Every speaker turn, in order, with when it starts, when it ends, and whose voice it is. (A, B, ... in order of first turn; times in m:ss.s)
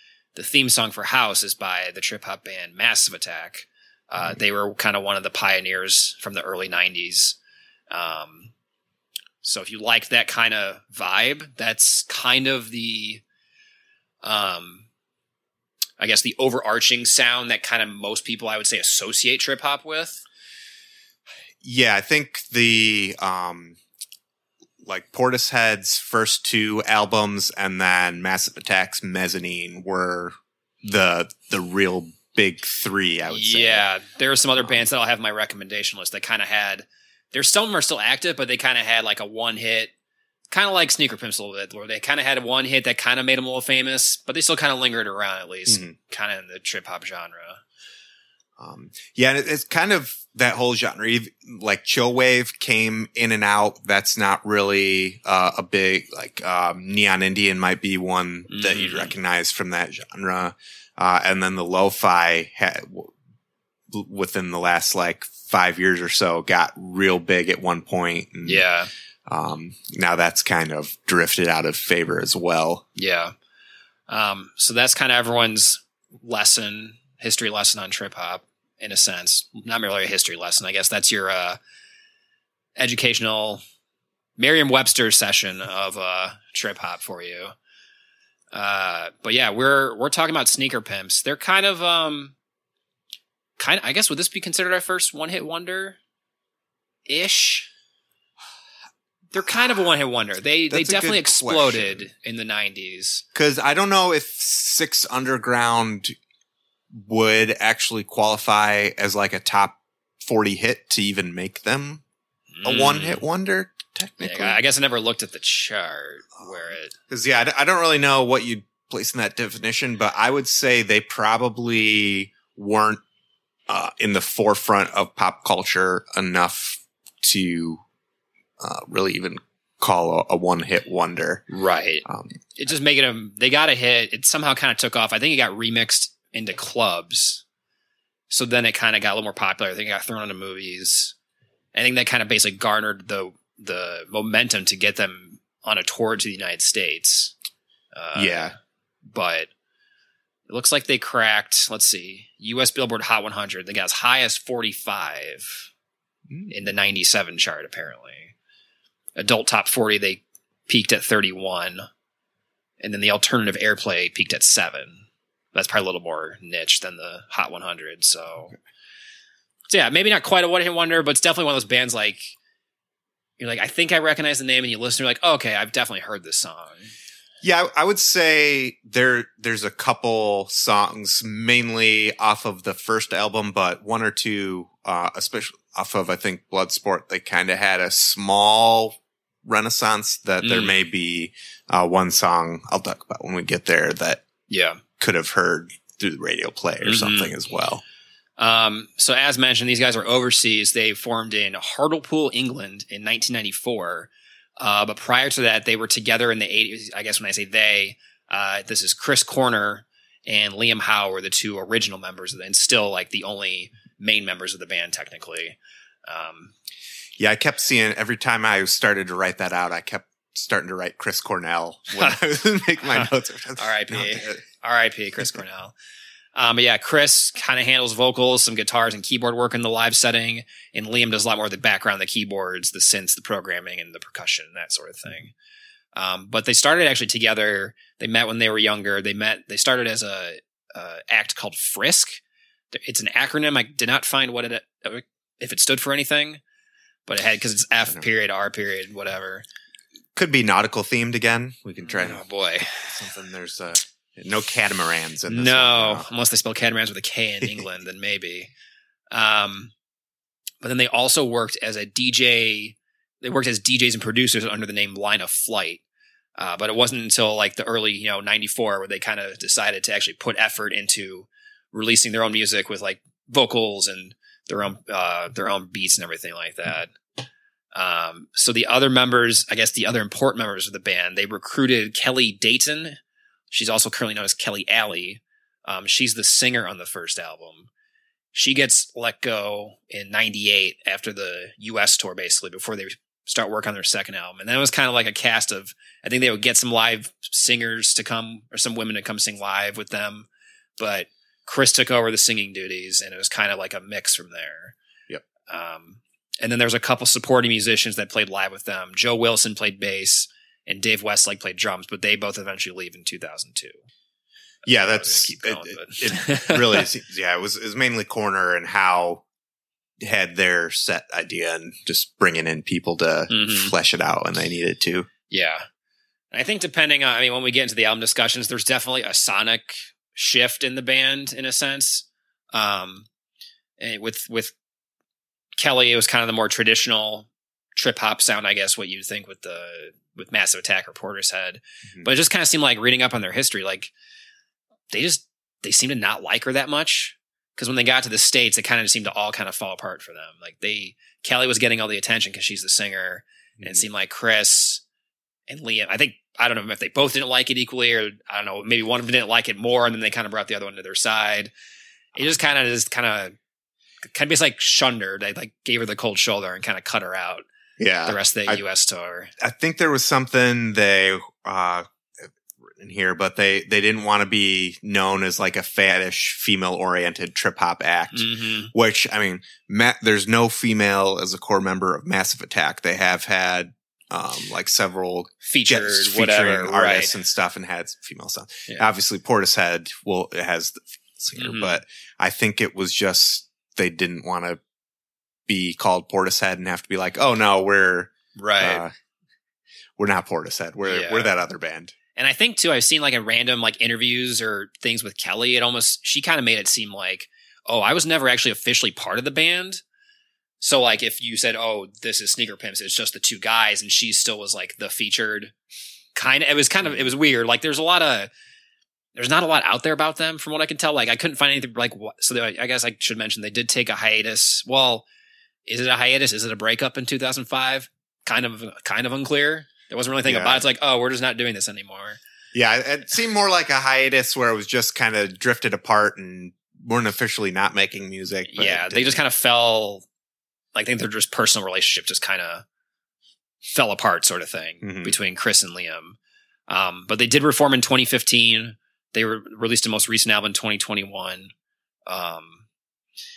0:00.4-0:07.4 A
0:07.9-0:08.5 A
0:09.4-0:13.2 A
0:14.2-0:14.9 A
0:16.0-0:20.2 A
0:21.6-0:23.8 B
0:24.8-0:33.8 B
0:33.3-0:39.9 A
0:40.5-0:47.6 A
0:45.7-0:45.9 B
0:48.6-1:03.1 B
0:58.5-0:59.1 A
1:03.9-1:08.6 B
1:08.4-1:08.9 A
1:09.3-1:12.8 B
1:13.0-1:13.3 A
1:14.1-1:21.6 A
1:22.8-1:23.6 A
1:24.4-1:27.6 A
1:28.5-1:32.4 A
1:33.6-1:36.0 A
1:37.1-1:37.7 A
1:39.3-1:43.2 A
1:40.7-1:42.1 B
1:43.4-1:46.2 B
1:46.9-1:52.0 B
1:52.5-1:53.2 A
1:52.6-1:54.6 B
1:54.2-1:57.0 A
1:56.4-2:03.0 B
2:03.7-2:07.8 B
2:08.6-2:11.5 B
2:11.5-2:17.4 A
2:12.0-2:12.4 B
2:18.3-2:21.2 A
2:21.7-2:27.3 A
2:27.9-2:28.5 A
2:28.2-2:28.5 B
2:29.1-2:29.5 A
2:30.5-2:35.7 A
2:36.5-2:38.3 A
2:39.2-2:41.9 A
2:42.8-2:48.5 A
2:49.7-2:52.3 A
2:53.4-2:56.9 A
2:57.4-3:14.2 B
3:10.4-3:10.9 A
3:14.5-3:14.8 A
3:15.0-3:17.8 B
3:16.8-3:17.3 A
3:18.4-3:36.5 A
3:37.2-3:44.4 B
3:42.9-3:45.7 A
3:46.4-3:55.3 A
3:56.0-4:02.2 A
4:02.7-4:06.4 A
4:07.1-4:09.4 A
4:10.2-4:12.2 B
4:11.8-4:12.9 A
4:12.8-4:16.1 B
4:15.3-4:18.5 A
4:19.1-4:19.7 A
4:20.6-4:25.8 A
4:26.4-4:36.9 A
4:37.7-4:43.0 A
4:43.5-4:47.7 A
4:48.3-5:00.3 A
5:00.8-5:04.8 A
5:05.5-5:13.8 A
5:14.6-5:19.2 B
5:14.7-5:16.9 A
5:20.0-5:25.1 B
5:23.3-5:23.8 A
5:25.3-5:25.7 A
5:26.3-5:33.1 A
5:33.8-5:34.6 A
5:35.6-5:43.9 A
5:44.9-5:54.8 A
5:53.6-5:53.8 B
5:55.5-6:01.5 A
6:02.2-6:03.4 A
6:04.0-6:07.5 A
6:07.8-6:08.6 B
6:08.1-6:09.3 A
6:09.4-6:34.6 B
6:18.1-6:18.7 A
6:25.4-6:27.2 A
6:31.4-6:31.7 A
6:35.5-6:38.9 B
6:38.4-6:38.8 A
6:40.0-6:42.0 B
6:40.9-6:41.3 A
6:42.2-6:49.8 A
6:50.6-6:55.5 A
6:56.2-6:58.3 A
6:59.2-7:05.0 A
7:05.7-7:12.2 A
7:10.2-7:10.6 B
7:12.5-7:19.2 B
7:18.5-7:20.1 A
7:20.8-7:22.7 A
7:23.7-7:31.5 A
7:24.8-7:25.2 B
7:32.1-7:32.6 A